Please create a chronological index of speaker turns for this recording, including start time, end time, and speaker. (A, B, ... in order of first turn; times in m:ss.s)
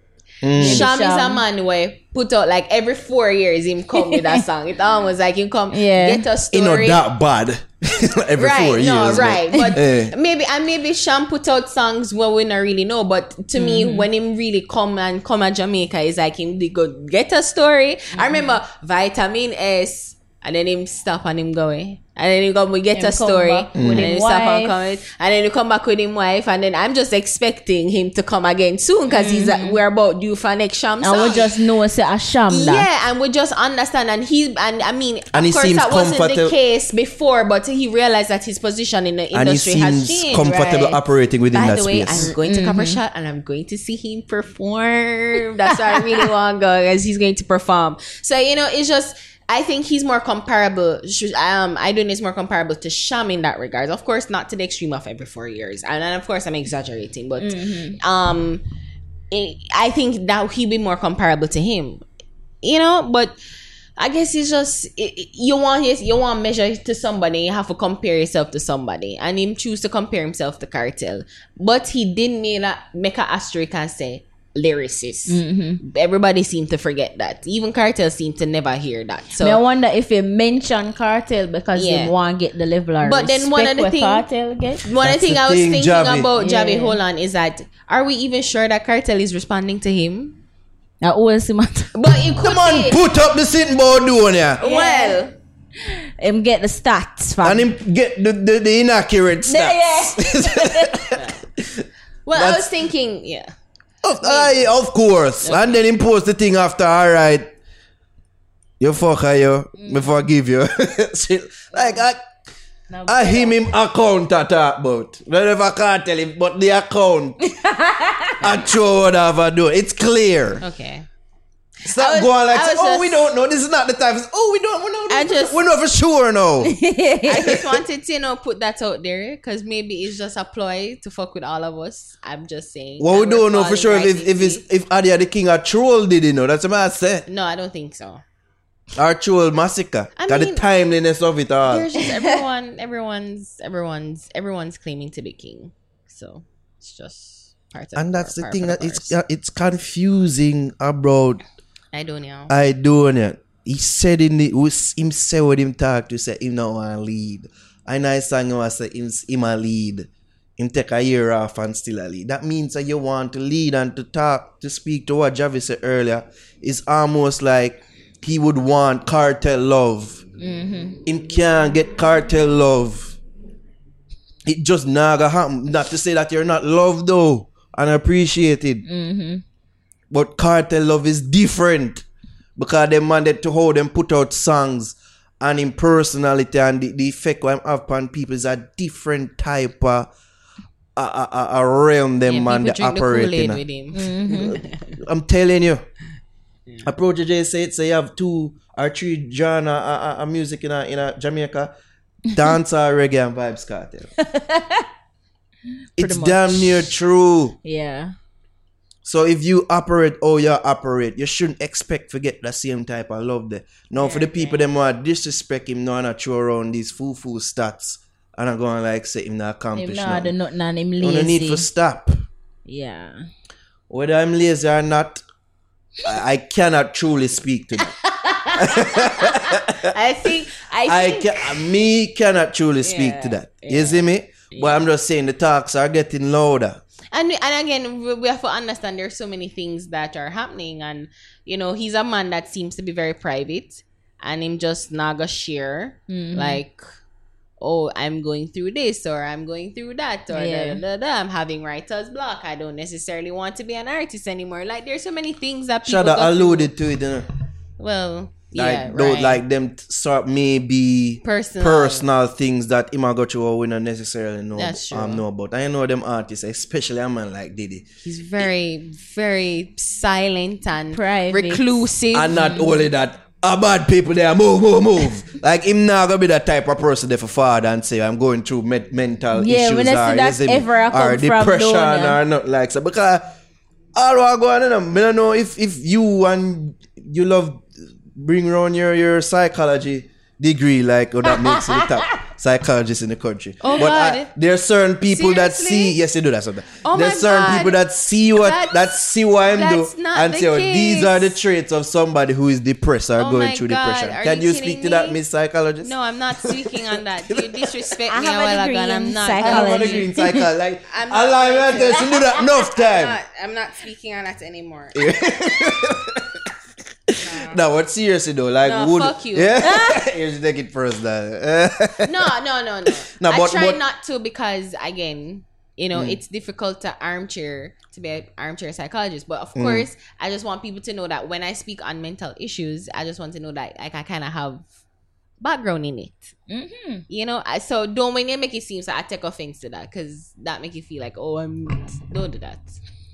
0:00.4-0:00.9 A
0:00.6-0:01.4 B
0:00.6-0:07.0 C
0:04.0-0:04.4 B
0:05.7-0:06.2 B
0:06.5-0:10.1 A
0:08.4-0:31.5 C
0:13.5-0:14.1 B
0:18.1-0:18.6 B
0:22.9-0:24.8 B
0:23.7-0:24.1 A
0:29.1-0:29.8 B
0:31.0-0:32.8 B
0:32.5-0:41.0 C
0:35.3-0:36.5 A
0:39.3-0:42.3 A
0:41.5-0:58.6 C
0:42.2-0:43.0 B
0:57.4-0:58.0 B
0:59.3-1:02.0 C
1:02.6-1:03.4 C
1:04.0-1:19.6 C
1:15.3-1:15.8 B
1:19.4-1:24.8 B
1:21.7-1:22.1 C
1:23.0-1:24.3 C
1:24.8-1:30.4 C
1:25.0-1:26.3 A
1:26.4-1:27.0 B
1:31.0-1:31.9 B
1:31.9-1:33.0 C
1:32.4-1:34.6 A
1:34.6-1:35.3 C
1:34.6-1:35.2 B
1:35.8-1:37.7 B
1:37.4-1:42.7 A
1:39.5-1:41.0 B
1:42.2-1:43.5 C
1:44.0-1:47.5 A
1:44.2-1:44.6 C
1:45.4-1:45.8 C
1:48.8-1:52.2 A
1:49.8-1:50.2 B
1:52.9-1:53.5 B
1:53.0-1:57.5 A
1:57.5-1:58.4 B
1:58.4-2:00.6 A
2:00.6-2:01.0 C
2:01.8-2:06.8 A
2:01.8-2:03.2 C
2:05.1-2:05.6 C
2:06.6-2:07.5 B
2:07.2-2:14.6 C
2:13.0-2:17.3 A
2:17.3-2:18.2 C
2:19.0-2:21.9 A
2:20.2-2:20.6 C
2:21.6-2:29.1 C
2:28.0-2:31.4 A
2:31.9-2:32.5 C
2:32.5-2:50.2 A
2:50.4-2:51.0 B
2:51.0-2:53.2 A
2:54.4-2:58.8 A
2:58.8-2:59.4 B
3:00.1-3:02.0 A
3:02.6-3:10.1 A
3:11.0-3:13.6 A
3:12.2-3:15.0 C
3:13.9-3:14.6 B
3:15.0-3:15.8 A
3:16.8-3:21.7 A
3:22.3-3:24.1 A
3:24.2-3:24.8 B
3:26.0-3:26.9 B
3:26.0-3:27.6 A
3:27.6-3:28.1 B
3:29.0-3:40.3 A
3:34.0-3:34.7 C
3:39.8-3:41.7 B
3:41.0-3:42.2 A
3:42.6-3:43.2 B
3:43.9-3:45.2 A
3:46.0-3:47.9 A
3:48.2-3:48.9 C
3:48.5-3:49.9 A
3:49.8-3:51.6 C
3:50.8-3:56.8 A
3:52.8-3:54.9 C
3:57.1-4:06.8 C
4:06.1-4:06.6 B
4:07.6-4:16.7 C
4:10.3-4:10.8 B
4:15.8-4:17.3 A
4:17.8-4:19.4 C
4:18.5-4:27.8 A
4:21.2-4:22.1 C
4:24.6-4:25.2 C
4:28.0-4:32.4 C
4:30.9-4:31.6 B
4:32.1-4:43.3 A
4:32.3-4:32.7 B
4:39.3-4:42.2 B
4:43.9-5:07.7 A
4:53.6-4:54.3 C
4:55.1-4:56.0 C
4:56.8-4:57.8 C
4:58.4-4:58.9 C
4:59.5-5:01.4 C
5:03.2-5:05.2 C
5:05.8-5:10.1 C
5:08.1-5:10.4 B
5:09.4-5:13.2 A
5:10.9-5:15.1 C
5:14.9-5:16.5 A
5:17.1-5:22.3 A
5:17.2-5:17.6 C
5:18.6-5:19.8 C
5:19.6-5:19.9 B
5:22.0-5:34.6 C
5:22.9-5:23.8 A
5:25.9-5:26.2 A
5:29.6-5:29.9 A
5:35.4-5:36.3 C
5:36.5-5:37.0 B
5:37.1-5:42.8 C